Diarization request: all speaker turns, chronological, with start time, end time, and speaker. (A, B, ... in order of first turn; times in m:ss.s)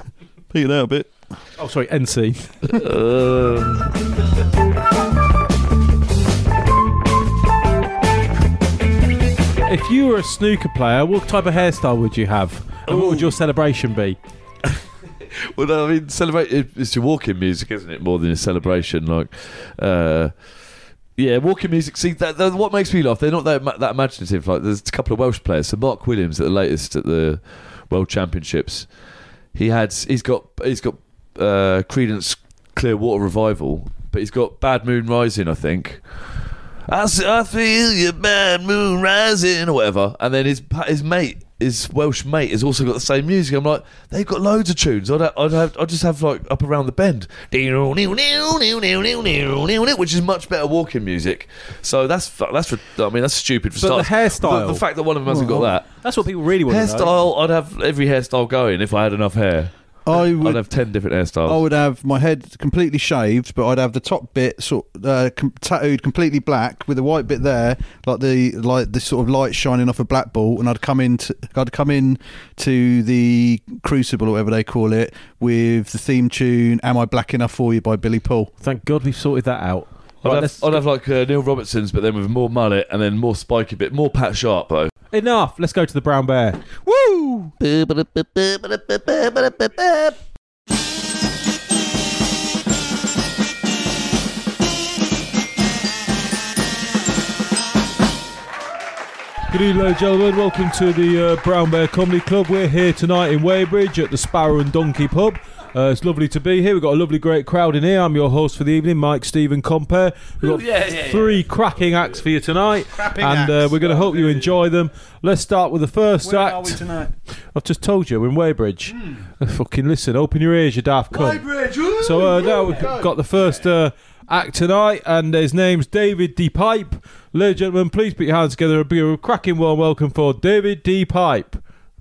0:00.5-0:01.1 A
0:01.6-0:02.6 B
0:02.6-0:04.1 C
0:09.6-0:14.2 B
0:12.9-0:13.4 C
0:15.4-0:20.3 C
0:21.2-0:28.9 C
0:29.5-0:36.0 C
0:36.9-0:55.9 C
0:53.8-0:54.8 B
0:55.3-0:55.7 A
0:56.0-0:57.1 B
0:56.7-0:59.7 C
1:00.0-1:00.6 A
1:00.2-1:01.6 C
1:01.4-1:18.5 A
1:18.6-1:20.8 B
1:20.2-1:24.9 C
1:25.1-1:26.7 B
1:26.8-1:27.5 A
1:27.6-1:30.2 C
1:39.5-1:56.8 B
1:50.4-1:51.4 C
1:52.9-1:54.0 A
1:56.2-1:57.1 A
1:57.5-2:01.4 B
2:01.1-2:02.8 C
2:02.0-2:11.6 B
2:02.4-2:03.1 A